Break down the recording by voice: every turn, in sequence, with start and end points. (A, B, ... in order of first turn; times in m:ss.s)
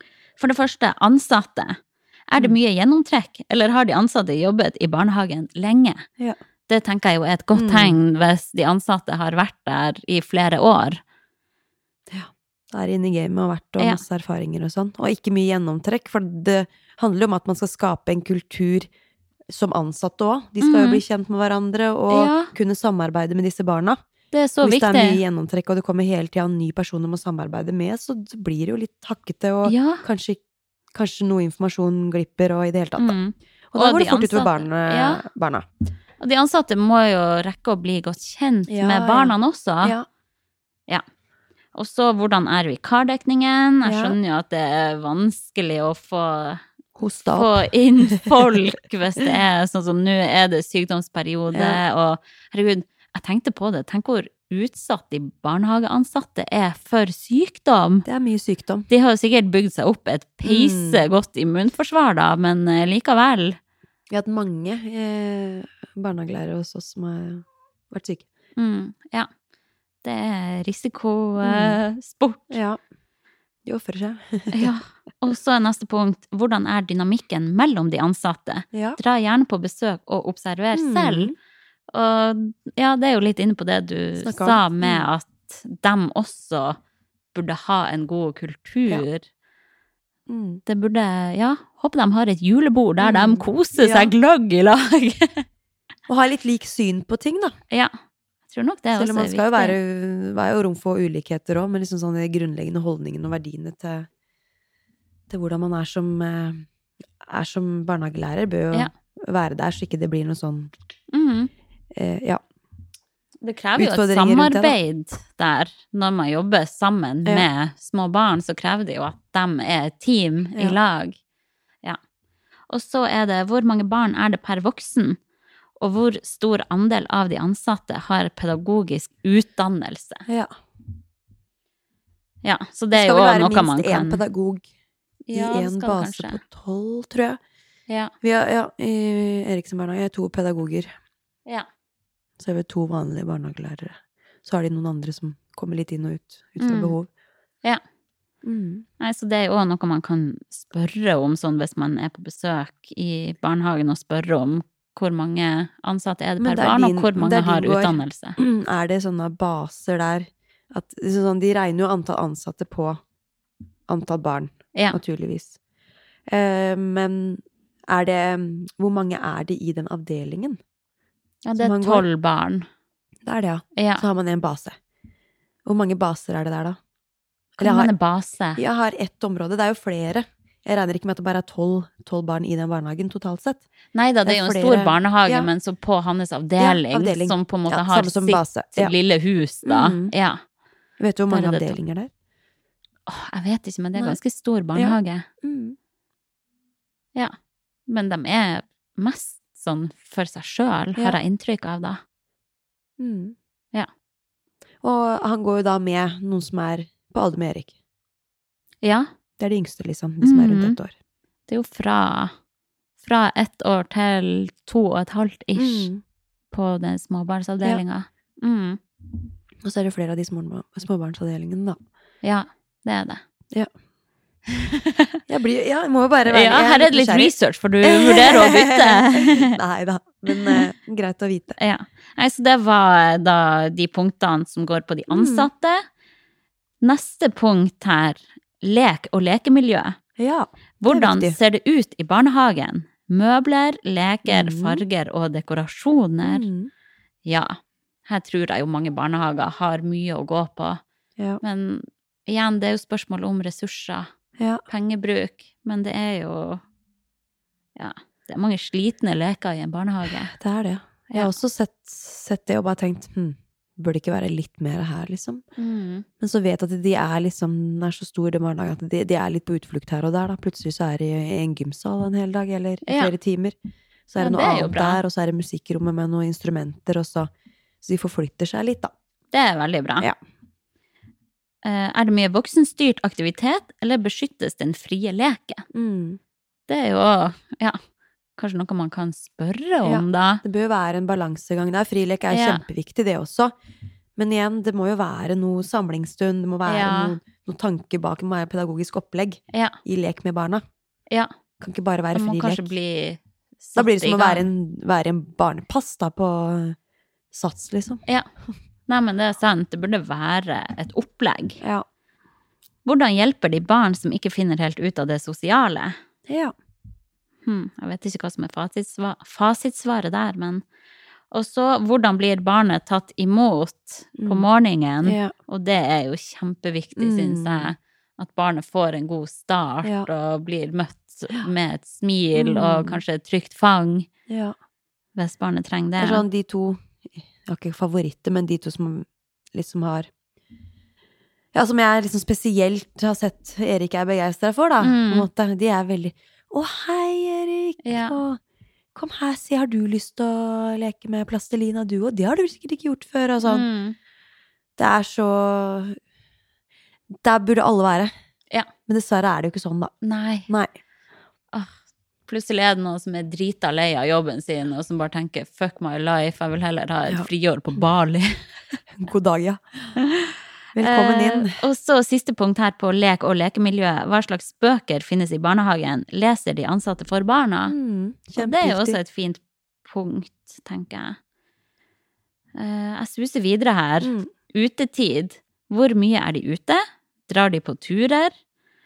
0:00.4-0:01.8 A
0:02.3-0:06.0 A
0:06.7-0:11.0 A
0:07.5-0:08.0 B
0:12.1-0:18.9 B
0:19.5-0:24.0 B
0:20.6-0:21.0 A
0:22.1-0:22.5 A
0:24.3-0:25.2 A
0:24.6-0:30.4 B
0:29.6-0:30.0 A
0:30.9-0:33.2 B
0:33.0-0:35.2 A
0:33.7-0:35.6 B
0:36.2-0:40.0 A
0:38.7-0:40.1 B
0:41.7-0:46.6 A
0:43.8-0:44.2 B
0:46.9-0:48.4 B
0:47.3-0:58.0 A
0:51.5-0:51.8 B
0:58.0-0:58.9 B
0:58.9-1:03.6 A
1:00.4-1:01.0 B
1:04.1-1:08.3 B
1:08.6-1:09.3 A
1:10.0-1:12.6 A
1:11.4-1:11.8 B
1:12.5-1:12.8 B
1:13.6-1:14.7 B
1:14.5-1:21.3 A
1:18.7-1:19.0 B
1:20.7-1:21.3 B
1:21.9-1:26.8 A
1:24.2-1:25.1 B
1:27.3-1:29.3 A
1:30.3-1:30.6 B
1:30.6-1:35.4 A
1:33.0-1:34.1 B
1:36.1-1:37.6 B
1:38.5-1:39.8 A
1:38.9-1:44.1 B
1:45.3-1:46.7 B
1:47.2-1:50.7 B
1:51.1-1:51.5 A
1:51.9-1:52.4 B
1:53.4-2:01.2 A
1:53.8-1:54.8 B
2:02.7-2:05.2 A
2:05.8-2:10.2 A
2:10.3-2:10.5 B
2:12.4-2:14.2 A
2:12.9-2:14.6 B
2:15.3-2:16.4 A
2:15.3-2:17.4 B
2:18.2-2:20.9 B
2:22.4-2:27.1 B
2:26.6-2:26.9 A
2:28.4-2:28.8 B
2:29.0-2:38.4 A
2:36.4-2:43.0 B
2:43.9-2:45.6 B
2:46.3-2:50.6 B
2:51.4-2:52.6 A
2:51.6-2:52.0 B
2:53.2-2:54.8 B
2:53.8-2:54.0 A
2:55.6-2:56.8 B
2:57.6-2:57.9 B
2:57.6-2:58.6 A
2:58.6-3:03.6 B
3:03.9-3:10.4 A
3:04.3-3:05.5 B
3:06.6-3:08.9 B
3:09.6-3:10.1 B
3:11.0-3:12.1 B
3:11.3-3:11.7 A
3:13.1-3:15.3 A
3:14.7-3:15.8 B
3:17.9-3:22.0 A
3:23.0-3:23.4 B
3:24.8-3:27.7 B
3:28.8-3:29.1 A
3:29.4-3:30.9 B
3:30.2-3:30.8 A
3:31.5-3:32.3 A
3:33.0-3:35.9 A
3:35.6-3:36.0 B
3:36.5-3:38.8 A
3:39.6-3:41.8 B
3:42.2-3:43.2 A
3:44.6-3:45.1 A
3:45.3-3:51.6 B
3:46.3-3:49.5 A
3:51.6-3:55.8 A
3:55.1-3:55.5 B
3:56.8-4:00.0 A
4:00.2-4:01.4 B
4:00.8-4:06.5 A
4:04.3-4:04.8 B
4:06.2-4:06.7 B
4:07.2-4:10.8 A
4:11.4-4:14.1 A
4:14.4-4:14.6 B
4:14.7-4:16.6 A
4:17.8-4:20.3 A
4:20.3-4:25.4 B
4:25.6-4:26.0 A
4:26.2-4:33.6 B
4:32.9-4:33.1 A
4:34.1-4:37.3 B
4:34.2-4:35.0 A
4:37.8-4:38.9 B
4:39.3-4:40.1 A
4:41.6-4:45.6 A
4:45.7-4:46.2 B
4:46.7-4:47.8 A
4:48.4-4:50.4 A
4:49.8-4:53.5 B
4:52.3-4:52.6 A
4:54.2-5:00.6 B
4:56.6-4:57.2 A
5:01.6-5:02.7 B
5:02.1-5:04.5 A
5:03.8-5:06.8 B
5:07.3-5:08.0 B
5:08.9-5:11.6 A
5:11.6-5:11.9 B
5:12.8-5:16.0 A
5:16.3-5:16.5 B
5:17.4-5:20.6 A
5:21.3-5:34.1 A
5:24.2-5:24.4 B
5:25.0-5:25.3 B
5:27.0-5:27.7 B
5:32.3-5:33.0 B
5:34.3-5:34.6 B
5:35.2-5:36.2 A
5:36.0-5:40.1 B
5:41.5-5:48.4 B
5:44.8-5:45.3 A
5:47.8-5:48.2 A
5:48.9-5:53.6 B
5:53.4-5:54.0 A
5:54.8-5:56.0 B
5:57.2-5:58.1 B
5:58.9-5:59.9 B
6:00.0-6:00.5 A
6:00.5-6:00.7 B
6:02.3-6:08.3 A
6:08.9-6:09.9 B
6:10.2-6:17.7 A
6:10.7-6:11.6 B
6:17.7-6:19.0 B
6:18.4-6:21.2 A
6:22.6-6:28.3 A
6:24.0-6:24.3 B